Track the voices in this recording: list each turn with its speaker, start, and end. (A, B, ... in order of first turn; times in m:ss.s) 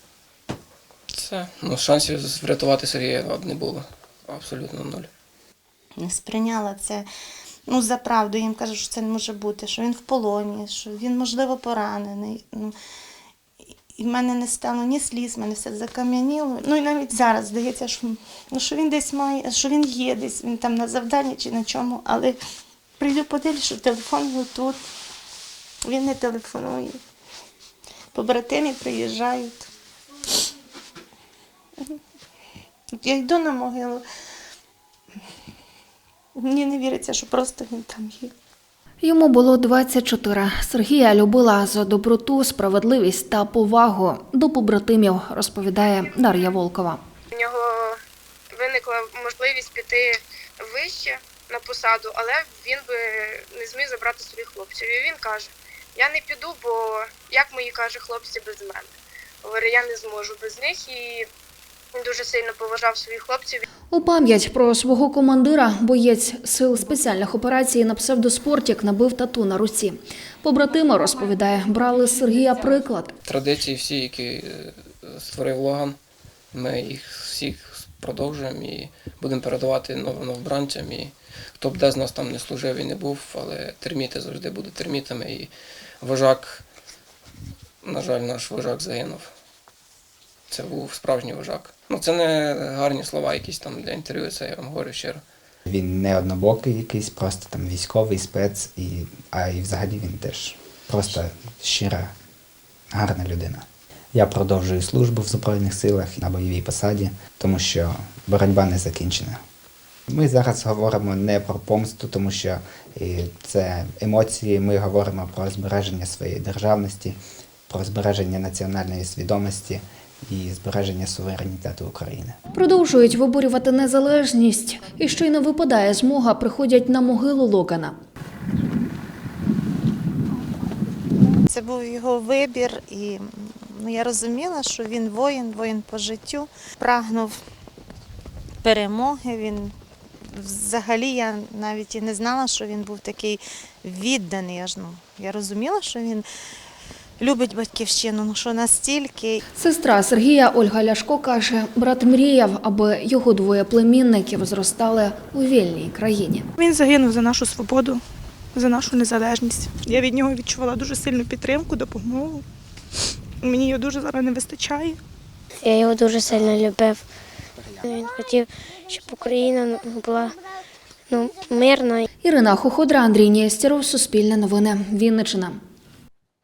0:01.1-0:05.1 A
0:06.0-0:07.1 B
0:07.7-0:12.7 B
0:13.9-0:22.4 B
0:23.0-0:24.8 B
0:25.8-0:27.0 B
0:28.1-0:29.7 B
0:33.0-0:34.0 B
0:36.3-0:38.3 B
0:39.0-0:47.0 C
0:47.3-0:48.0 D
0:48.5-0:58.9 D
0:59.4-1:01.3 D
1:01.9-1:03.6 D
1:03.9-1:13.1 C
1:13.2-1:16.0 A
1:16.5-1:26.6 A
1:27.8-1:29.3 A
1:30.5-1:35.2 A
1:35.7-1:42.1 E
1:42.9-1:49.4 E
1:50.1-1:57.2 E
1:57.7-2:02.4 E
2:02.5-2:07.9 C
2:11.4-2:17.4 B
2:18.6-2:26.2 B
2:27.2-2:29.4 B
2:29.6-2:36.4 C
2:36.6-2:38.0 F
2:38.5-2:42.4 F
2:43.4-2:45.0 F
2:45.6-2:47.0 G
2:47.8-2:50.4 G
2:51.1-2:52.0 G
2:52.2-2:55.6 C